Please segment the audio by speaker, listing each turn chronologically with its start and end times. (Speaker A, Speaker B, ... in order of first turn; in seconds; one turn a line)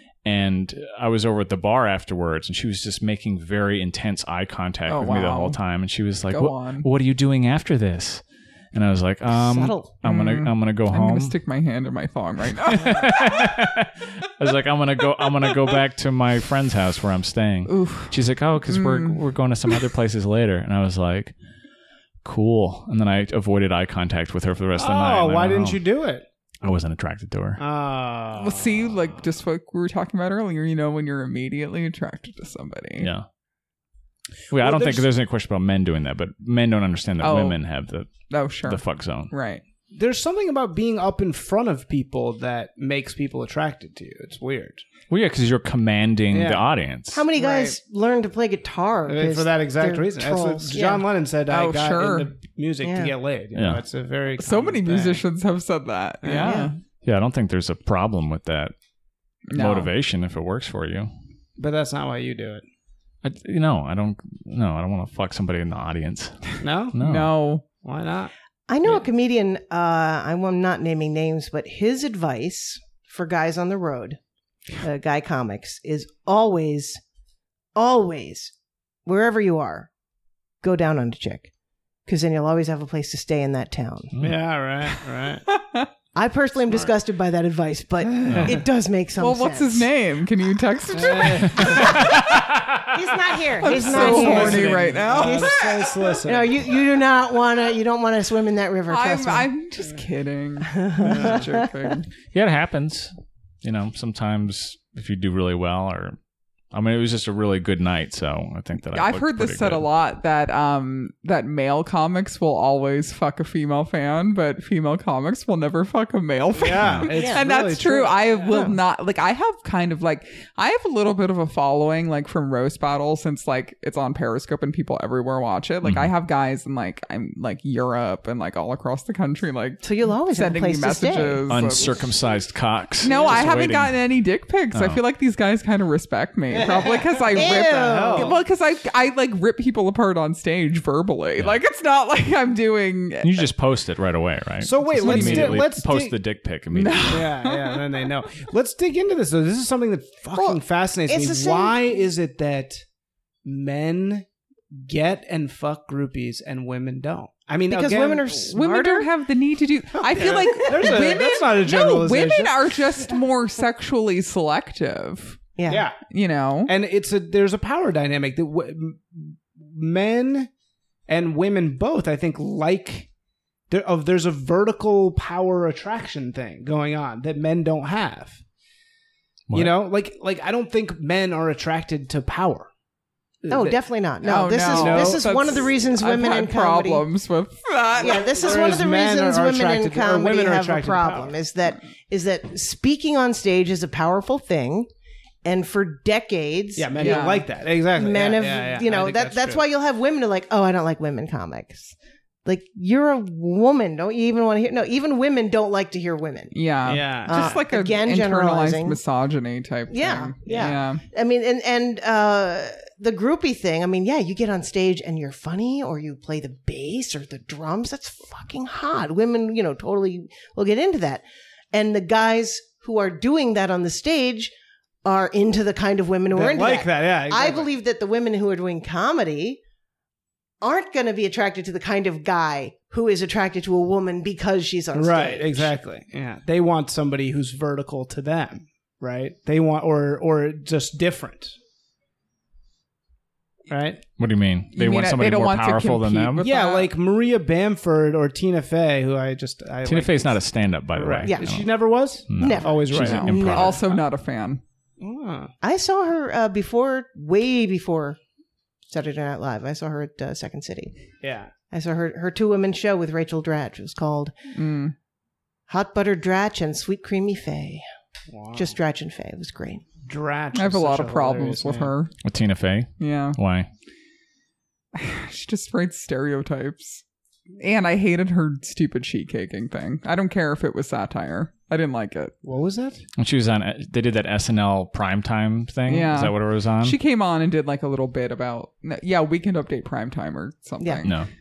Speaker A: 0.2-11.3
Speaker B: 4.9-5.6
Speaker B: 6.3-6.9
Speaker C: 9.3-9.9
Speaker B: 10.0-13.4
Speaker A: 12.7-21.3
Speaker B: 17.7-18.1
Speaker B: 18.7-19.2
Speaker A: 22.2-25.8
Speaker D: 24.8-26.2
Speaker A: 26.6-27.6
Speaker D: 27.6-28.9
Speaker B: 28.3-33.1
Speaker A: 33.0-33.2
Speaker A: 34.5-39.3
Speaker D: 34.6-35.1
Speaker B: 37.2-37.6
Speaker B: 38.2-39.6
Speaker D: 39.9-44.8
Speaker A: 45.1-47.2
Speaker D: 46.3-46.6
Speaker C: 47.1-51.0
Speaker B: 47.4-47.8
Speaker D: 49.0-55.2
Speaker B: 51.5-52.3
Speaker C: 52.8-53.1
Speaker A: 53.5-53.8
Speaker B: 54.4-56.8
Speaker D: 56.2-56.7
Speaker C: 56.4-56.7
Speaker A: 57.0-58.7
Speaker B: 59.5-59.9
Speaker A: 59.5-61.1
Speaker D: 61.6-62.6
Speaker A: 63.2-67.3
Speaker D: 66.6-67.0
Speaker B: 67.0-67.6
Speaker D: 67.8-68.3
Speaker C: 68.7-74.2
Speaker C: 74.8-77.0
Speaker C: 77.7-78.5
Speaker C: 79.0-79.9
Speaker C: 80.6-81.5
Speaker C: 82.1-84.1
Speaker D: 84.2-85.4
Speaker B: 85.5-85.9
Speaker C: 86.1-89.9
Speaker D: 86.7-86.9
Speaker D: 88.2-88.5
Speaker A: 88.3-88.5
Speaker B: 89.2-92.1
Speaker D: 90.9-92.1
Speaker C: 91.1-95.7
Speaker A: 92.1-92.9
Speaker B: 93.6-95.8
Speaker D: 93.6-96.6
Speaker C: 96.2-99.5
Speaker B: 98.9-102.1
Speaker C: 100.8-101.7
Speaker D: 101.0-101.5
Speaker A: 102.3-103.1
Speaker A: 103.6-106.2
Speaker A: 106.7-109.8
Speaker B: 108.9-132.1
Speaker D: 116.5-118.5
Speaker A: 116.8-117.0
Speaker C: 117.1-117.4
Speaker C: 118.5-118.8
Speaker A: 125.8-126.1
Speaker C: 129.8-131.9
Speaker A: 131.5-134.0
Speaker B: 133.0-143.5
Speaker D: 133.1-133.4
Speaker A: 134.7-135.0
Speaker D: 136.6-138.4
Speaker C: 137.3-138.4
Speaker A: 143.2-147.2
Speaker D: 144.6-146.2
Speaker B: 144.9-145.6
Speaker B: 146.7-147.8
Speaker D: 147.1-152.8
Speaker C: 150.3-151.8
Speaker D: 153.4-158.5
Speaker C: 157.7-159.1
Speaker B: 158.5-165.4
Speaker D: 160.0-162.8
Speaker C: 165.6-165.8
Speaker D: 165.7-166.0
Speaker B: 166.1-166.7
Speaker D: 166.6-170.5
Speaker D: 171.1-173.1
Speaker D: 173.7-178.4
Speaker A: 179.5-179.7
Speaker D: 179.5-182.7
Speaker D: 183.4-183.8
Speaker C: 183.5-187.1
Speaker B: 184.2-188.4
Speaker D: 184.7-185.6
Speaker C: 188.0-194.9
Speaker D: 188.4-191.3
Speaker C: 195.4-197.2
Speaker D: 196.8-199.6
Speaker B: 196.9-197.4
Speaker C: 197.9-206.5
Speaker B: 206.5-211.0
Speaker D: 206.8-207.6
Speaker C: 207.2-209.0
Speaker C: 209.9-224.5
Speaker D: 210.4-210.7
Speaker C: 225.0-229.6
Speaker D: 226.3-227.7
Speaker C: 230.6-235.7
Speaker D: 234.9-241.6
Speaker D: 243.7-244.0
Speaker A: 244.2-246.4
Speaker B: 244.7-246.9
Speaker D: 246.4-250.4
Speaker A: 249.8-251.7
Speaker D: 250.9-254.0
Speaker A: 252.3-253.8
Speaker C: 252.4-253.8
Speaker B: 252.9-254.6
Speaker D: 255.0-255.5
Speaker C: 255.6-258.2
Speaker C: 258.9-260.9
Speaker D: 261.2-261.5
Speaker C: 261.7-264.3
Speaker B: 264.5-264.9
Speaker C: 265.7-267.8
Speaker D: 268.3-268.8
Speaker C: 268.5-269.8
Speaker D: 270.1-271.9
Speaker B: 270.5-272.1
Speaker A: 272.2-273.7
Speaker B: 273.0-273.4
Speaker B: 274.9-277.0
Speaker B: 277.6-282.3
Speaker D: 282.4-283.0
Speaker A: 283.2-286.9
Speaker B: 285.9-291.2
Speaker C: 290.8-291.1